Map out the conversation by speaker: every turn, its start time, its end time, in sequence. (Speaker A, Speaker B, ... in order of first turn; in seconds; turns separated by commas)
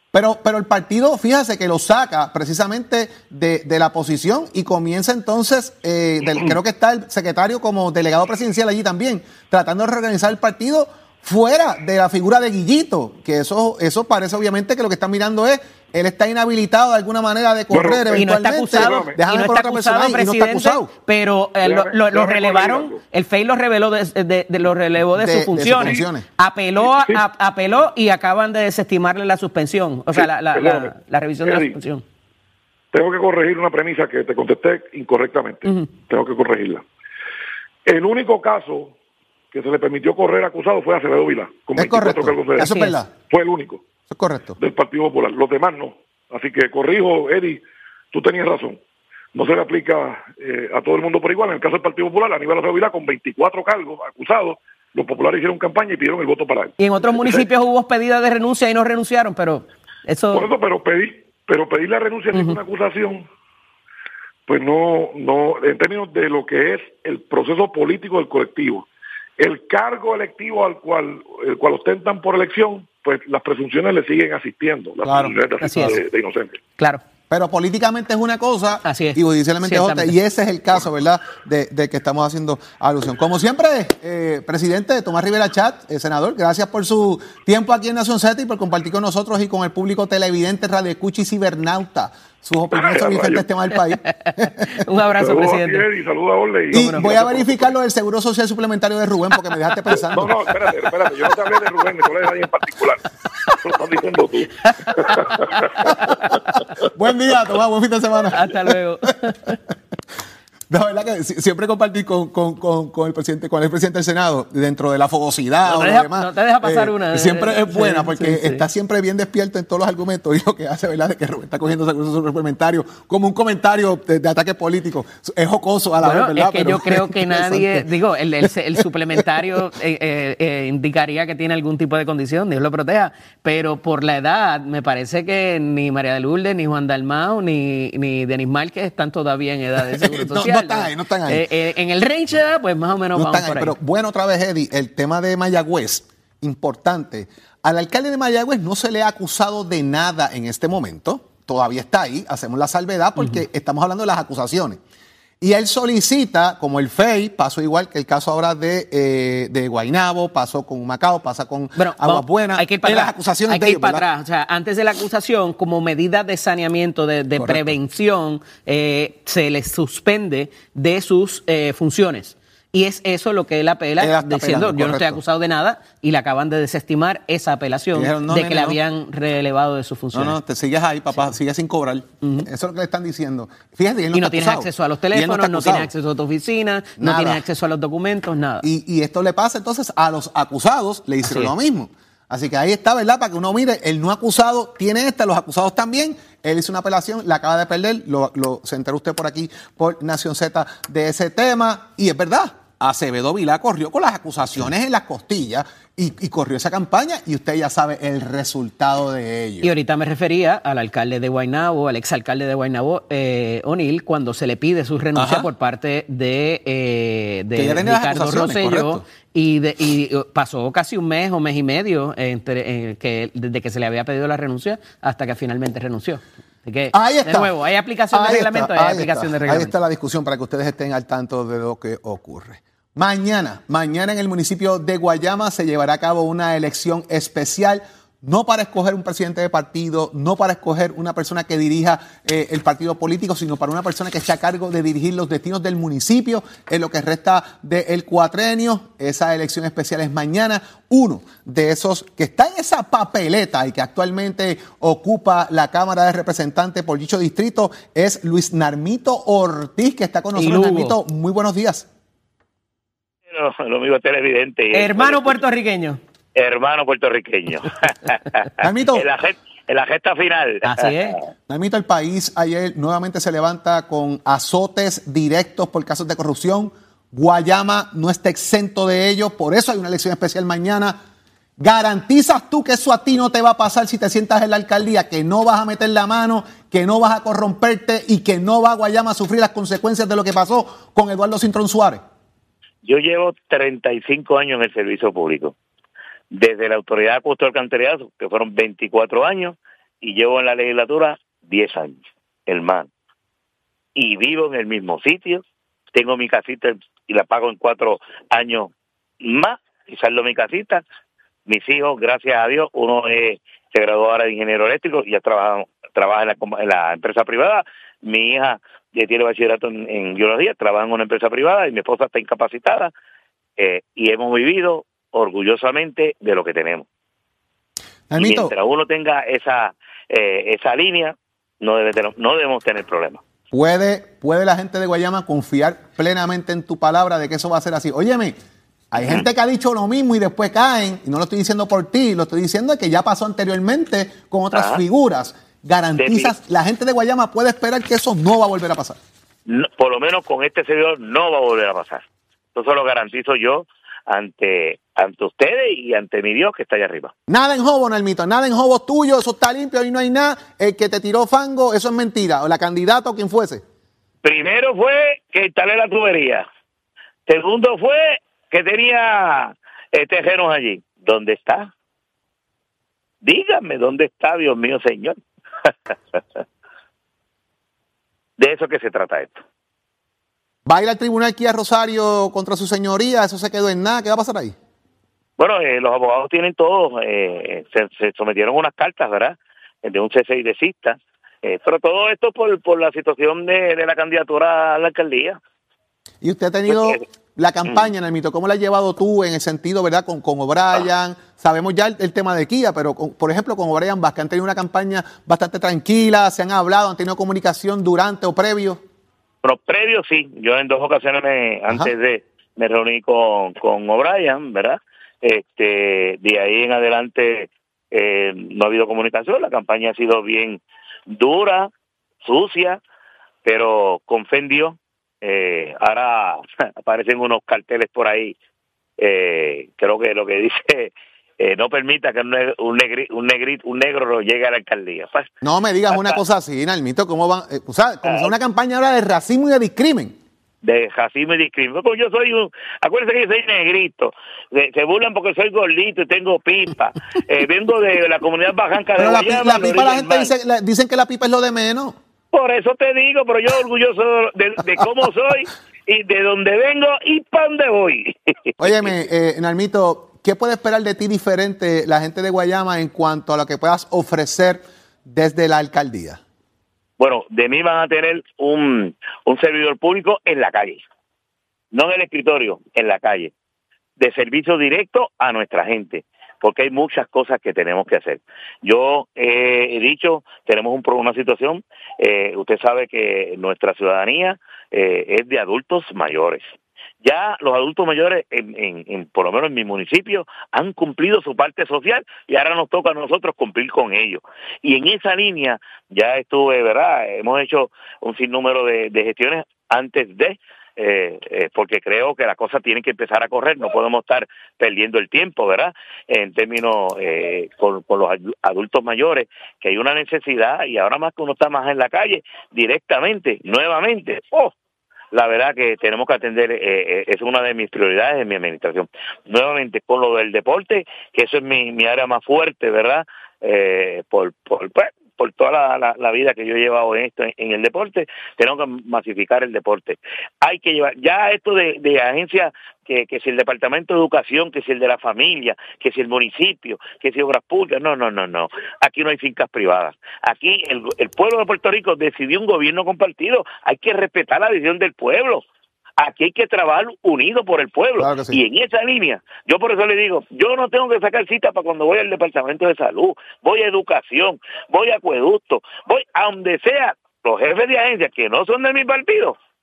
Speaker A: 0.1-20.9, Speaker B: 17.7-19.2, Speaker C: 18.1-32.0, Speaker B: 21.6-23.0, Speaker A: 25.1-26.2, Speaker B: 26.8-27.2, Speaker B: 30.1-30.9, Speaker B: 31.4-31.8, Speaker B: 32.9-36.8, Speaker B: 37.9-38.9, Speaker B: 39.5-43.8, Speaker A: 41.8-43.1, Speaker C: 42.6-43.0, Speaker A: 44.1-44.6, Speaker B: 44.6-48.8, Speaker B: 49.3-57.5, Speaker C: 56.8-60.5, Speaker B: 60.3-63.3, Speaker B: 64.5-68.9, Speaker B: 69.4-76.5, Speaker A: 75.0-76.0, Speaker C: 75.6-76.0, Speaker A: 77.3-94.8, Speaker C: 78.8-80.1, Speaker B: 92.7-93.5, Speaker C: 94.0-95.8, Speaker B: 95.2-97.6, Speaker A: 96.7-100.3, Speaker C: 96.7-97.1, Speaker B: 100.1-105.9, Speaker C: 104.8-106.6, Speaker A: 106.9-108.8, Speaker C: 108.3-109.6, Speaker A: 110.7-127.8, Speaker C: 115.7-118.6, Speaker C: 126.0-143.7, Speaker A: 128.4-129.6, Speaker A: 140.0-141.4, Speaker A: 143.1-154.8, Speaker A: 155.4-164.0, Speaker C: 161.8-180.4, Speaker A: 167.4-167.7, Speaker A: 174.0-175.2, Speaker A: 177.9-178.8, Speaker A: 180.1-185.9, Speaker C: 182.2-182.5, Speaker C: 184.1-188.6, Speaker A: 187.0-187.4, Speaker A: 188.6-209.7, Speaker C: 191.2-191.5, Speaker C: 209.6-229.7, Speaker A: 215.2-215.5, Speaker A: 217.5-219.0, Speaker A: 226.9-227.5, Speaker A: 228.1-261.9, Speaker C: 260.4-261.0, Speaker D: 263.3-265.4, Speaker C: 264.7-266.0, Speaker D: 266.3-270.9, Speaker A: 268.6-269.1, Speaker C: 270.6-271.2, Speaker A: 271.5-281.0, Speaker A: 281.6-292.0, Speaker D: 292.8-295.5, Speaker D: 296.3-302.9, Speaker D: 303.9-310.8, Speaker D: 311.5-322.9, Speaker D: 323.6-326.9, Speaker A: 328.1-328.5, Speaker D: 328.2-333.2, Speaker A: 333.5-338.4, Speaker A: 338.9-349.0, Speaker D: 344.5-344.8, Speaker D: 346.0-346.3, Speaker D: 349.5-352.0, Speaker D: 352.5-357.1, Speaker A: 357.3-363.6, Speaker D: 364.2-366.4, Speaker D: 367.3-371.7, Speaker D: 373.2-376.4, Speaker D: 378.4-379.4, Speaker A: 380.6-384.5, Speaker D: 385.4-395.4, Speaker A: 396.2-408.8, Speaker D: 396.7-397.0, Speaker D: 409.4-421.7, Speaker D: 422.2-422.8, Speaker D: 423.4-428.4, Speaker D: 429.0-435.3, Speaker A: 435.4-440.1, Speaker D: 435.9-436.2, Speaker D: 440.6-450.3, Speaker A: 449.0-451.9, Speaker D: 452.3-458.9, Speaker A: 458.6-466.2, Speaker D: 467.0-470.8, Speaker D: 471.7-473.3, Speaker D: 474.0-486.4, Speaker D: 487.0-514.5, Speaker D: 515.1-545.4, Speaker D: 546.0-559.4, Speaker A: 548.0-548.4